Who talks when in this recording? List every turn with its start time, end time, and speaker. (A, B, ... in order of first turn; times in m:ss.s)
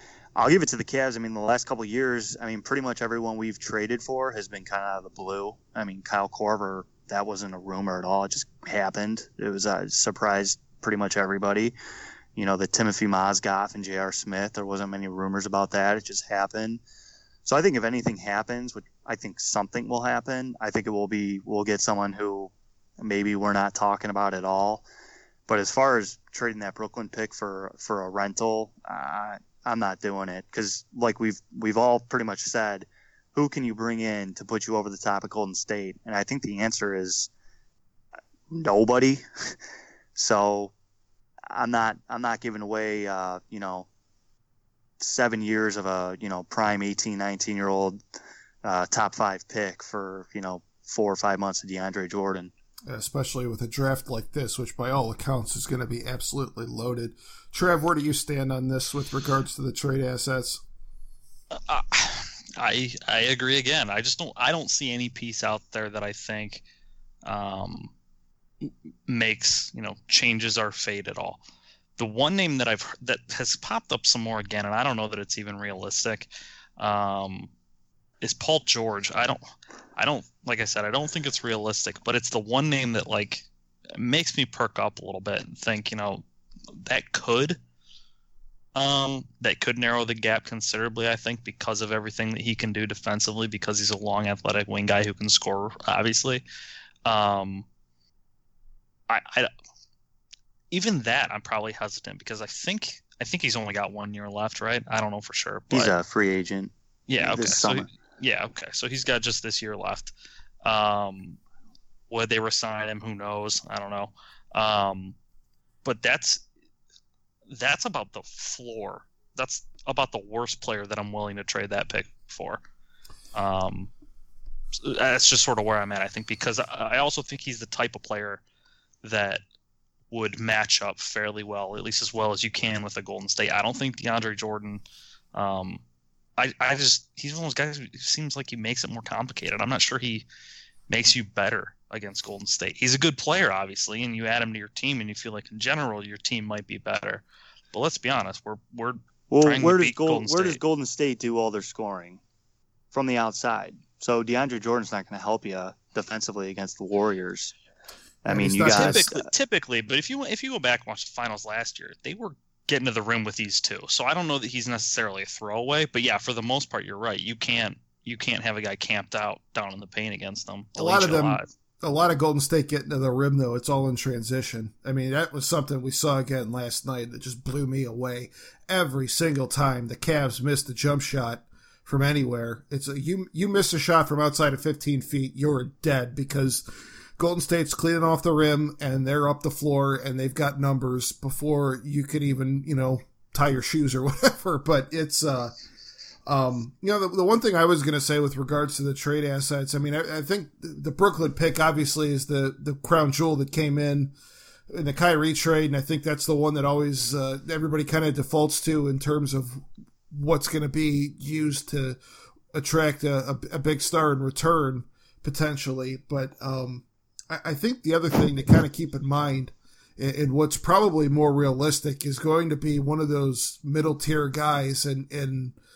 0:00.4-0:11.8 A
0:12.4-0:16.8 A
0:17.4-0:24.8 A
0:25.5-0:37.3 A
0:38.5-0:39.2 A
0:40.2-0:40.7 A
0:41.5-0:43.9 A
0:45.0-0:48.0 A
0:48.6-0:52.5 A
0:52.9-1:00.6 B
1:01.5-1:06.6 C
1:07.2-1:07.9 C
1:08.6-1:11.4 C
1:12.0-1:17.5 C
1:18.2-1:19.4 C
1:20.0-1:23.5 C
1:24.0-1:26.2 C
1:26.9-1:27.6 C
1:28.8-1:36.4 C
1:37.0-1:37.6 C
1:39.1-1:39.5 C
1:40.7-1:45.9 C
1:45.7-1:47.9 A
1:47.1-1:50.1 C
1:50.6-1:51.4 C
1:52.1-1:55.2 C
1:55.8-1:56.4 C
1:57.5-2:02.6 C
2:03.3-2:03.9 C
2:04.8-2:08.4 C
2:09.0-2:09.4 C
2:10.1-2:14.8 C
2:15.3-2:15.8 C
2:16.4-2:20.3 C
2:20.9-2:30.6 C
2:29.3-2:32.2 A
2:32.9-2:37.6 A
2:38.2-2:39.1 A
2:38.3-2:39.1 B
2:38.7-2:51.5 C
2:50.8-3:06.6 B
3:07.2-3:15.5 B
3:16.3-3:24.1 B
3:24.7-3:32.0 B
3:32.5-3:45.6 B